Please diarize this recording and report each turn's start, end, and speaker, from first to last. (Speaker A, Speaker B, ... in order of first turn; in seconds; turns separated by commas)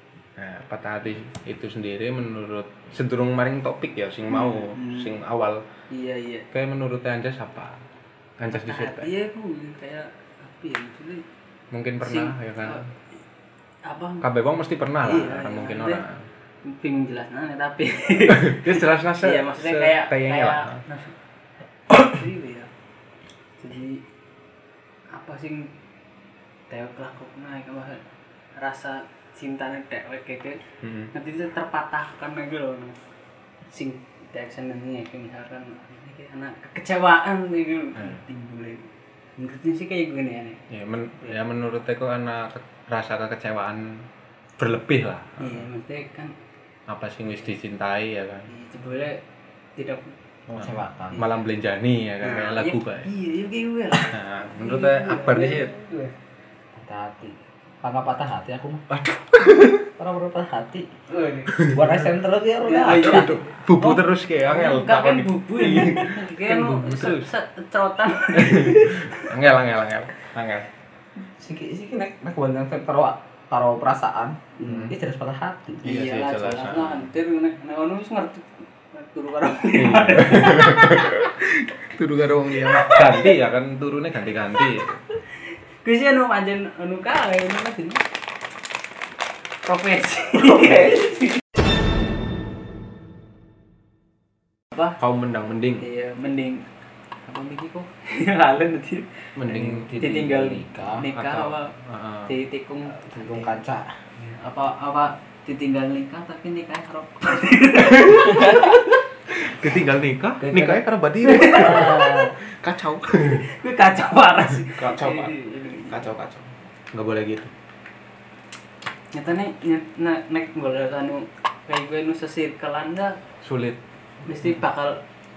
Speaker A: 0.4-5.6, Speaker B: 4.3-5.1, Speaker B: 5.9-6.5, Speaker A: 6.5-7.8, Speaker A: 8.4-9.1, Speaker B: 8.5-11.2, Speaker A: 11.7-12.8, Speaker B: 12.0-12.8, Speaker B: 13.8-14.2, Speaker A: 14.2-16.3, Speaker B: 15.0-16.0, Speaker B: 16.6-21.1, Speaker A: 18.3-20.8, Speaker B: 21.9-22.7, Speaker B: 23.6-24.0, Speaker B: 25.1-25.7, Speaker B: 26.7-28.0, Speaker B: 28.6-30.6, Speaker A: 30.8-31.1, Speaker B: 31.1-33.0, Speaker B: 33.7-40.6, Speaker A: 40.7-44.1, Speaker A: 44.6-45.7, Speaker B: 45.4-46.4, Speaker A: 46.9-48.5, Speaker B: 48.5-49.2, Speaker B: 49.8-50.1, Speaker C: 50.5-51.2, Speaker A: 50.6-53.1, Speaker B: 52.2-56.1, Speaker A: 54.1-55.7, Speaker C: 56.8-58.8, Speaker A: 58.9-59.9, Speaker C: 60.0-60.9, Speaker B: 61.1-61.6, Speaker A: 61.5-62.0, Speaker C: 61.7-63.4, Speaker B: 62.6-69.3, Speaker A: 62.9-67.3, Speaker A: 68.3-70.7, Speaker C: 71.3-75.9, Speaker B: 74.6-74.9, Speaker A: 74.6-75.0, Speaker B: 75.8-81.2, Speaker A: 75.8-77.1, Speaker A: 79.8-85.0, Speaker B: 82.5-83.3, Speaker B: 85.8-88.0, Speaker B: 89.6-91.1, Speaker C: 90.5-91.2, Speaker A: 95.0-95.8, Speaker B: 95.8-96.7, Speaker B: 97.2-99.3, Speaker A: 99.4-100.0, Speaker C: 99.5-101.1, Speaker B: 100.0-101.7, Speaker A: 101.0-102.3, Speaker B: 102.3-103.5, Speaker C: 103.0-103.9, Speaker B: 104.3-108.8, Speaker A: 107.8-108.6, Speaker C: 108.3-108.8, Speaker A: 109.3-113.5, Speaker C: 110.4-110.8, Speaker B: 111.2-112.2, Speaker C: 111.4-112.4, Speaker B: 113.4-116.1, Speaker A: 114.6-115.4, Speaker A: 115.9-117.5, Speaker B: 119.1-123.2, Speaker A: 123.4-123.8, Speaker B: 124.3-125.0